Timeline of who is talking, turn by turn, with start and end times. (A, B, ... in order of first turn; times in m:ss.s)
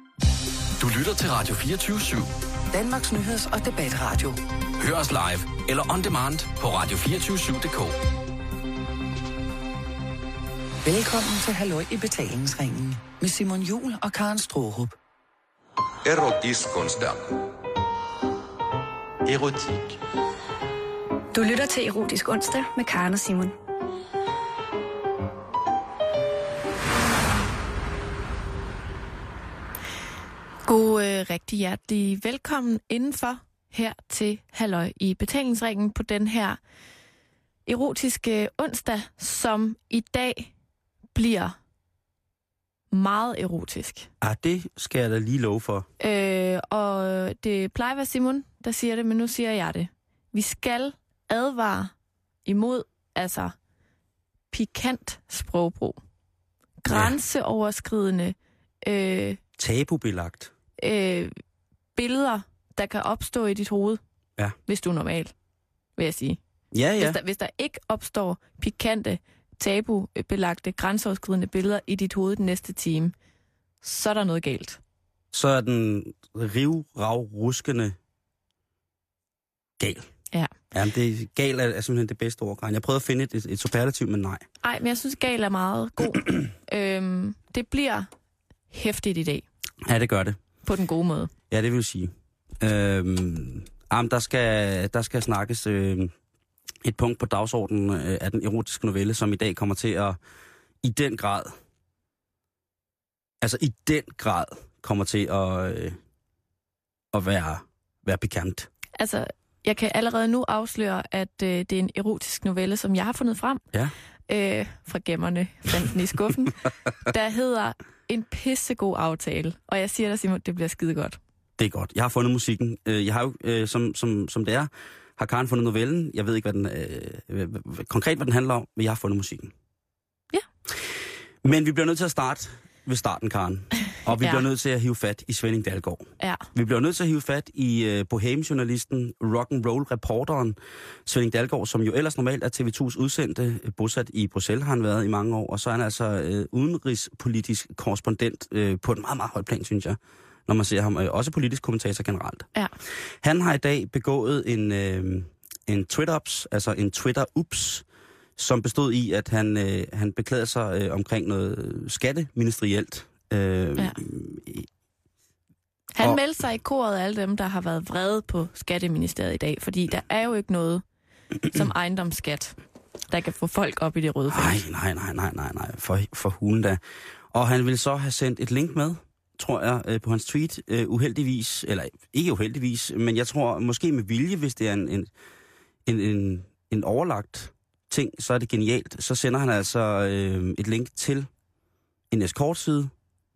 0:00.8-0:02.3 A
0:02.7-0:04.4 B
0:04.8-0:08.0 A
0:10.8-0:15.0 B
0:16.0-0:17.4 C
0:19.2-0:19.9 C
0:21.3-0:23.6 D
0:30.6-0:36.6 E
0:37.6-0:40.5 E
0:41.1-0:41.6 E
0:42.9-0:44.1 E
0:44.2-0:45.9 F
0:46.0-0:51.9 E
0:52.4-0:53.6 E
0:54.5-0:56.0 E
0:56.8-0:59.4 E
0:56.9-0:57.1 F
0:59.6-1:00.5 F
1:00.8-1:01.4 E
1:01.9-1:04.0 E
1:04.7-1:05.3 E
1:06.0-1:06.4 E
1:06.7-1:07.2 F
1:07.0-1:13.1 E
1:13.8-1:14.8 E
1:15.3-1:18.0 F
1:19.8-1:20.1 F
1:20.7-1:24.4 F
1:24.6-1:28.1 E
1:28.7-1:29.4 E
1:29.8-1:30.4 F
1:30.6-1:31.3 E
1:31.5-1:36.1 F
1:36.8-1:40.2 F
1:40.8-1:41.6 F
1:43.4-1:46.0 F
1:47.1-1:48.7 F
1:49.0-1:53.6 E
1:54.3-2:01.2 E
2:01.6-2:09.5 F
2:10.7-2:32.5 F
2:14.2-2:14.4 E
2:16.2-2:16.5 E
2:33.2-2:37.8 F
2:38.4-2:44.7 F
2:45.9-2:50.8 E
2:51.5-2:52.6 E
2:53.1-2:54.6 E
2:54.3-2:56.8 F
2:57.3-3:05.1 F
3:05.8-3:11.3 F
3:12.1-3:12.9 F